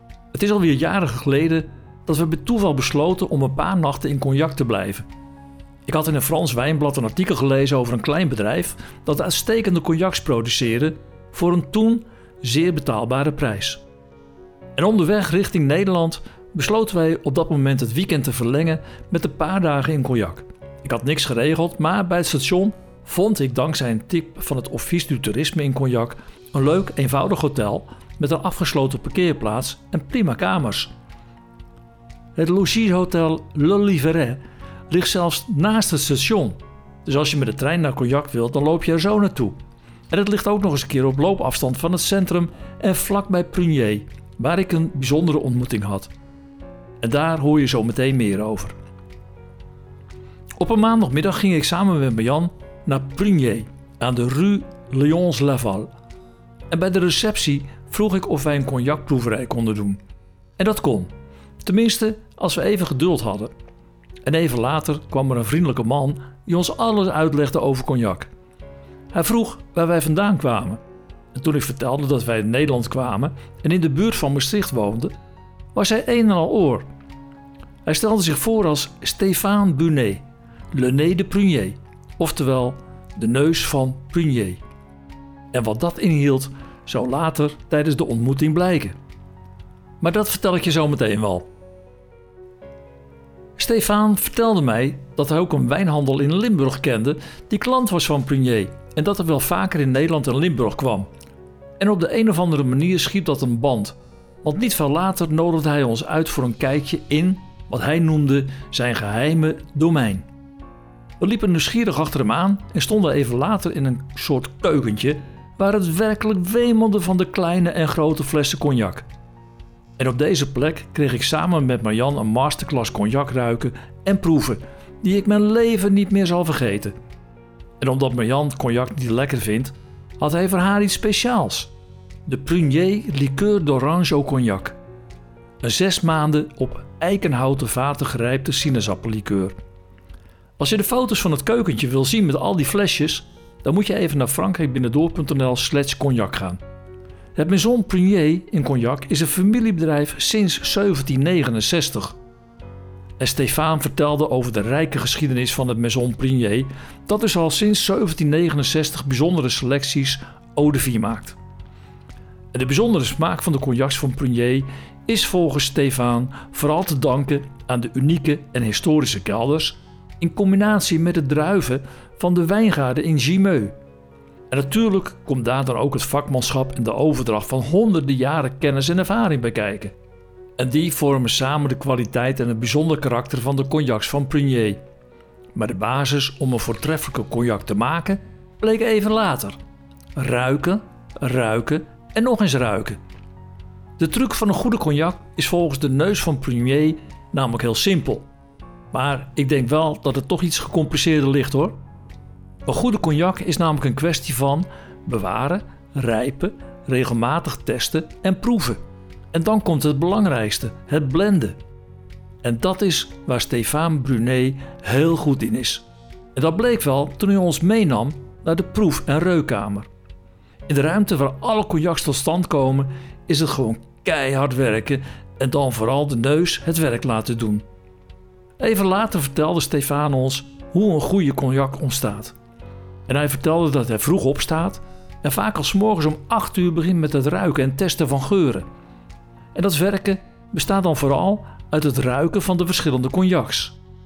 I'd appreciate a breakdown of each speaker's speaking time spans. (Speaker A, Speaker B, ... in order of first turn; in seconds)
Speaker A: 0.3-5.0, 5.8-13.8, 14.8-30.9, 32.4-39.5, 40.1-46.1, 47.0-48.7, 50.6-55.9, 56.7-60.0, 60.6-61.1, 61.6-63.5, 64.2-68.3, 69.1-70.8, 71.3-75.1, 75.7-76.8, 77.8-84.6, 85.5-89.0, 90.0-91.5, 93.6-101.1, 101.8-110.2, 111.2-119.0, 120.0-126.9, 127.8-131.7, 132.2-134.8, 135.6-139.5, 140.6-146.6, 147.3-152.1, 153.2-161.4, 162.5-173.7, 174.5-179.9, 180.6-184.8, 185.5-189.6, 190.1-193.0, 194.0-198.2, 198.9-201.8, 202.7-208.8, 209.3-211.6, 212.4-219.9, 220.7-227.6, 228.6-232.3, 233.1-238.7, 239.5-243.8